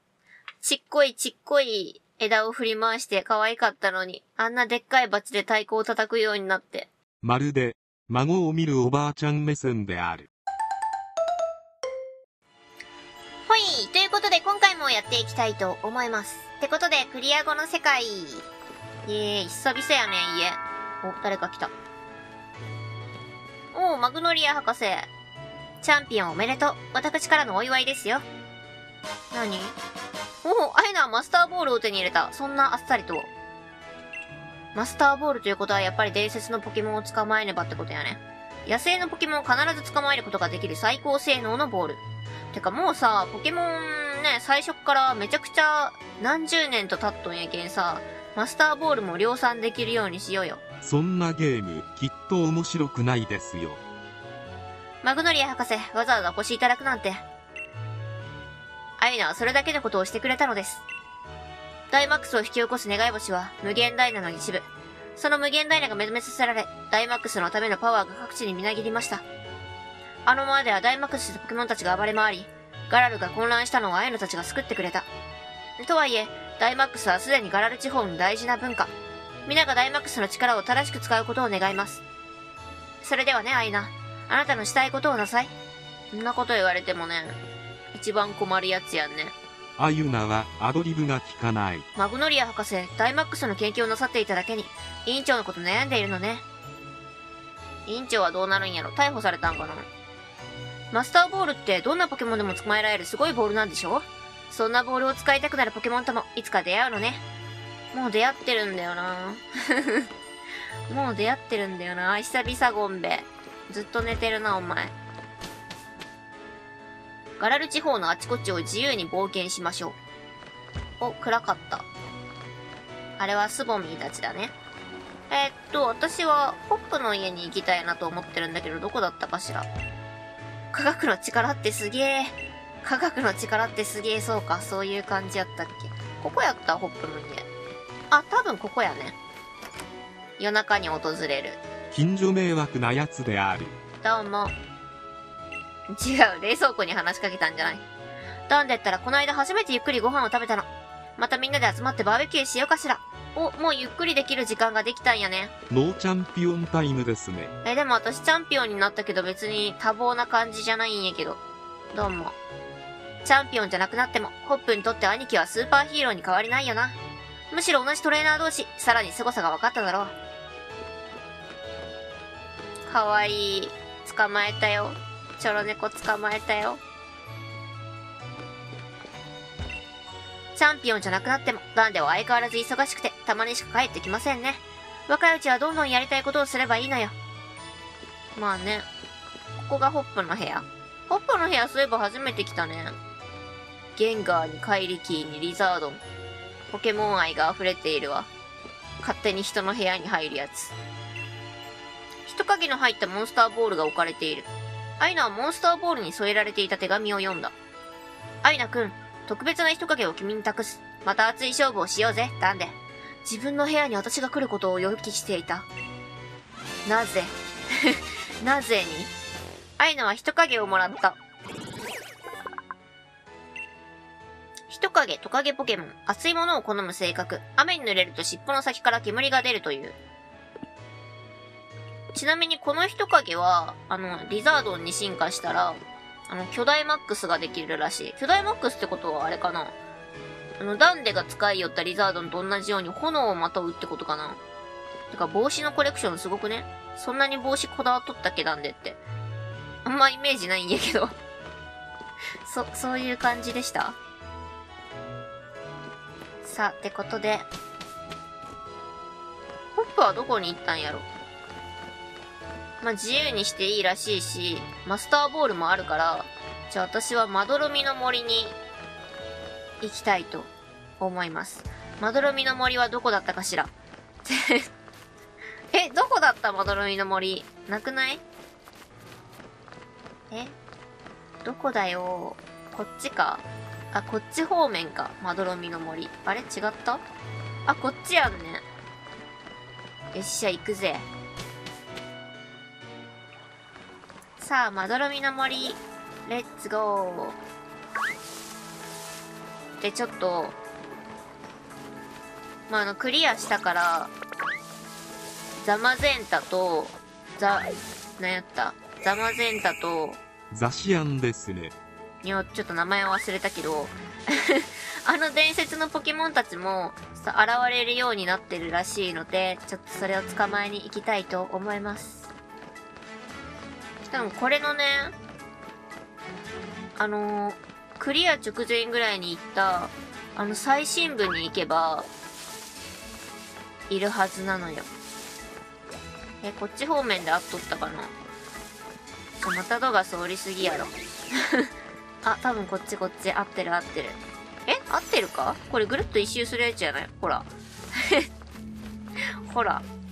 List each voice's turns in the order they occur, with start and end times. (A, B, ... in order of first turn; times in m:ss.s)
0:00.6-0:06.9 A
0:07.2-0:10.3 B
0:13.5-0:18.5 A
0:19.0-0:21.7 A
0:23.7-0:25.1 A
0:25.8-0:28.2 A
0:29.3-0:29.8 A
0:30.4-0:33.3 A
0:34.7-0:50.6 A
0:50.8-0:53.8 B
0:55.0-0:57.2 A
0:59.0-1:00.8 A
1:01.9-1:04.6 A
1:05.2-1:09.2 A
1:10.2-1:15.1 A
1:15.8-1:18.9 A
1:19.4-1:22.0 A
1:23.0-1:25.5 A
1:26.1-1:27.4 A
1:27.9-1:29.3 A
1:29.8-1:31.8 B
1:31.9-1:36.4 A
1:37.8-1:39.9 A
1:40.9-1:47.2 A
1:47.9-1:50.1 A
1:50.9-1:54.9 A
1:57.4-2:00.0 A
2:01.0-2:01.9 A
2:03.2-2:04.5 A
2:05.3-2:09.7 A
2:10.7-2:17.4 A
2:18.1-2:19.2 A
2:20.4-2:21.6 A
2:21.9-2:23.8 B
2:24.0-2:24.5 A
2:25.9-2:27.8 A
2:28.5-2:35.5 A
2:35.7-2:37.5 B
2:37.6-2:41.4 A
2:41.9-2:42.4 A
2:43.2-2:47.0 A
2:47.5-2:50.1 A
2:52.9-2:56.8 A
3:00.5-3:07.2 A
3:08.4-3:08.9 A
3:09.6-3:13.0 A
3:14.0-3:16.0 A
3:16.7-3:18.3 A
3:19.0-3:20.7 A
3:22.2-3:27.5 A
3:28.4-3:35.7 A
3:36.8-3:39.1 A
3:39.8-3:41.2 A
3:44.7-3:50.0 A
3:52.1-3:59.8 A
4:00.6-4:04.4 A
4:05.1-4:09.0 A
4:09.8-4:11.1 A
4:12.4-4:14.0 A
4:16.4-4:17.5 A
4:19.8-4:21.0 A
4:22.8-4:28.6 A
4:29.8-4:33.7 A
4:34.2-4:34.6 A
4:35.7-4:38.2 A
4:40.3-4:40.5 A
4:41.4-4:47.0 A
4:47.6-4:48.6 A
4:50.1-4:51.1 A
4:54.4-4:57.4 A
4:59.8-5:00.6 A
5:02.7-5:04.1 A
5:05.6-5:10.2 A
5:10.5-5:11.7 B
5:12.2-5:22.3 A
5:24.0-5:25.1 A
5:27.0-5:32.1 A
5:33.9-5:34.9 A
5:36.4-5:38.1 A
5:39.4-5:40.9 A
5:42.2-5:48.3 A
5:49.4-5:49.8 A